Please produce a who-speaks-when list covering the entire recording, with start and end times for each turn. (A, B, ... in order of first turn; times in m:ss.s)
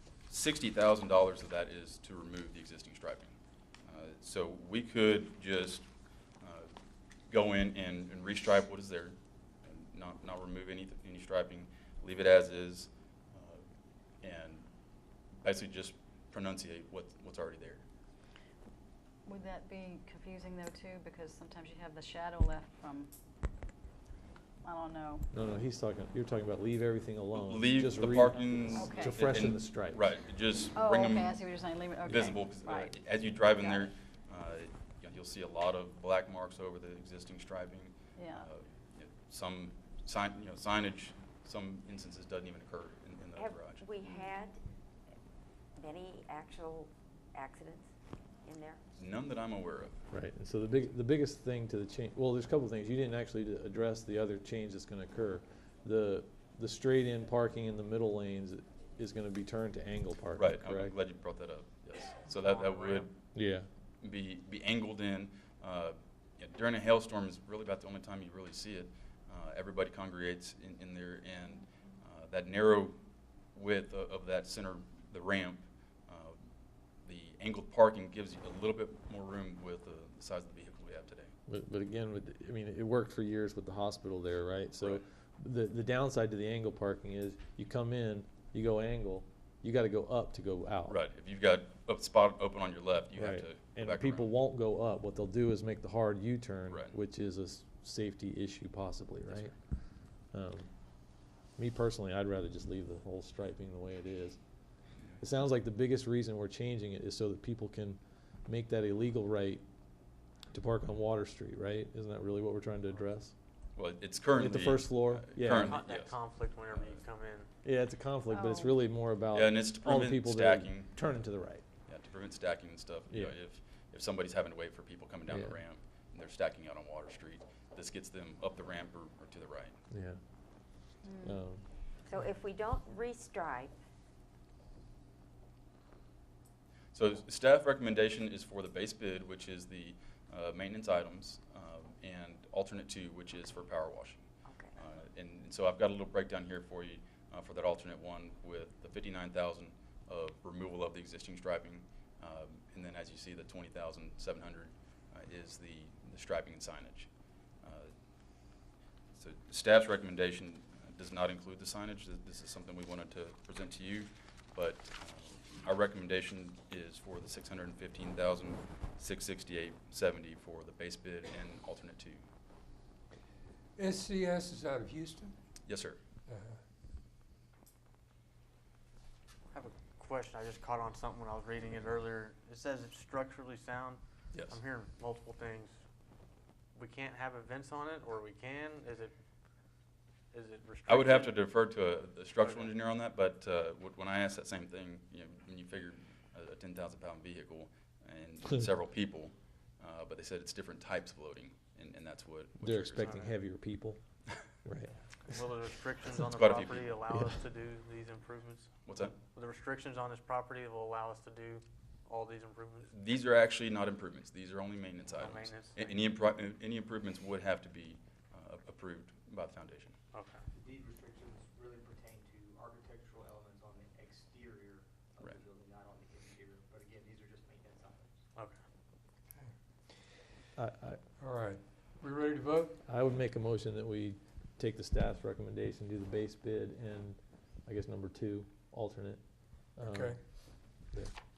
0:00.3-0:05.9 A
0:06.4-0:06.7 A
0:07.3-0:13.6 A
0:14.2-0:14.7 A
0:15.4-0:17.8 A
0:19.3-0:23.1 B
0:24.6-0:25.2 B
0:25.3-0:30.1 C
0:27.4-0:31.4 A
0:28.7-0:29.2 B
0:30.8-0:33.9 B
0:32.0-0:43.9 A
0:38.2-0:38.4 B
0:43.4-0:44.6 D
0:45.8-0:47.9 D
0:48.4-0:48.8 D
0:49.0-0:50.0 A
0:50.1-1:01.0 C
1:00.4-1:03.1 A
1:02.3-1:03.1 E
1:03.3-1:03.7 C
1:04.0-1:13.0 A
1:13.6-1:16.4 A
1:17.0-1:21.3 A
1:21.5-1:31.0 C
1:30.9-1:34.3 A
1:33.2-1:39.6 C
1:39.3-1:39.5 A
1:40.3-1:40.7 C
1:41.6-1:44.4 C
1:45.2-1:49.6 C
1:50.5-1:53.3 C
1:53.8-1:56.2 A
1:54.4-1:55.8 C
1:55.4-1:57.5 E
1:56.7-1:57.0 A
1:57.6-2:01.6 C
1:58.3-1:58.8 B
1:59.3-2:01.0 A
2:01.9-2:09.8 A
2:05.3-2:05.6 C
2:09.9-2:10.2 C
2:11.0-2:11.4 B
2:11.2-2:11.6 C
2:12.1-2:13.7 D
2:16.9-2:37.1 A
2:24.5-2:24.8 D
2:37.6-2:37.9 A
2:39.2-2:52.2 A
2:53.8-2:55.4 F
2:55.7-2:56.0 A
2:56.3-2:56.6 F
2:59.5-3:05.7 E
3:04.3-3:04.6 A
3:06.8-3:09.1 E
3:10.3-3:11.4 E
3:10.9-3:23.2 A
3:12.4-3:12.7 E
3:22.6-3:24.0 C
3:23.0-3:23.4 E
3:24.6-3:24.9 C
3:25.3-3:32.9 E
3:26.1-3:27.0 A
3:27.1-3:27.4 C
3:28.9-3:29.2 A
3:32.9-3:40.0 A
3:35.1-3:36.0 E
3:40.1-3:40.4 E
3:40.5-3:48.2 G
3:50.6-3:51.0 C
3:51.2-3:52.8 F
3:52.9-3:59.2 C
3:59.8-4:00.2 C
3:59.8-4:00.2 F
4:00.8-4:01.1 C